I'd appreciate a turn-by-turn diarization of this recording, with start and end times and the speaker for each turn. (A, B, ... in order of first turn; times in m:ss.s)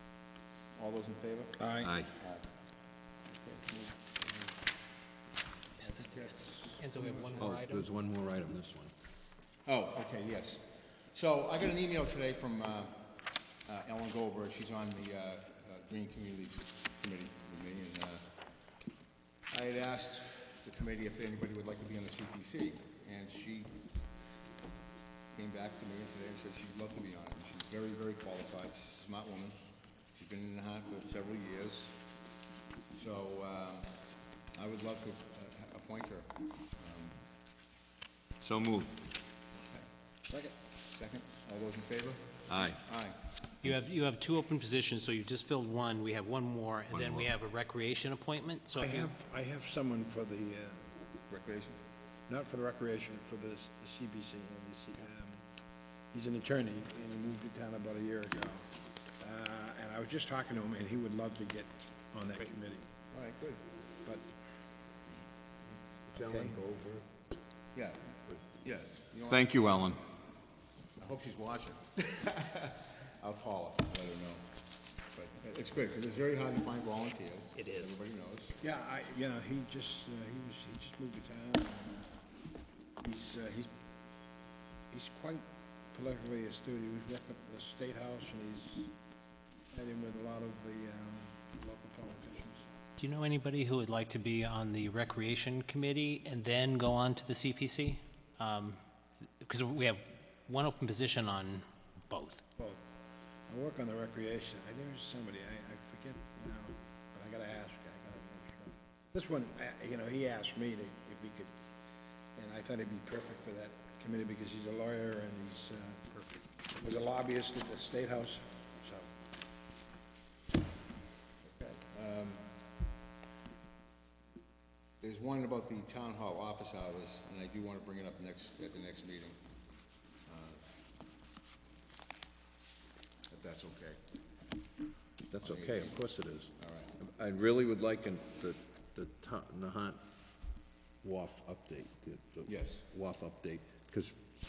0:00.8-0:02.4 A
0:01.6-0:02.0 B
0:01.8-0:02.1 C
0:03.3-0:04.5 A
0:05.8-0:06.2 D
0:05.9-0:07.6 A
0:06.8-0:07.9 D
0:07.4-0:08.9 C
0:09.7-0:13.0 A
0:13.7-0:18.3 A
0:19.5-0:23.7 A
0:25.3-0:29.6 A
0:30.1-0:32.0 A
0:32.9-0:34.0 A
0:34.5-0:37.2 A
0:38.4-0:39.0 C
0:39.5-0:39.9 A
0:40.9-0:43.2 A
0:42.5-0:42.8 C
0:43.6-0:49.1 D
0:46.9-0:47.3 C
0:48.8-0:50.9 B
0:51.3-0:51.8 A
0:52.3-0:55.4 B
0:56.1-0:58.6 B
0:59.2-1:02.9 B
1:03.1-1:03.6 A
1:06.1-1:07.1 C
1:06.2-1:06.6 B
1:07.7-1:09.5 A
1:09.3-1:10.0 C
1:11.0-1:14.4 A
1:15.1-1:18.6 A
1:17.6-1:18.0 D
1:18.6-1:22.1 B
1:23.0-1:23.7 B
1:24.9-1:28.9 B
1:29.7-1:32.6 B
1:33.0-1:38.8 D
1:39.4-1:42.4 D
1:43.5-1:51.5 B
1:52.4-1:59.1 B
2:01.4-2:02.5 A
2:05.0-2:09.4 A
2:10.3-2:10.6 A
2:13.3-2:14.0 A
2:15.3-2:20.0 C
2:15.4-2:16.0 A
2:16.5-2:16.9 A
2:21.0-2:24.2 C
2:22.5-2:22.8 A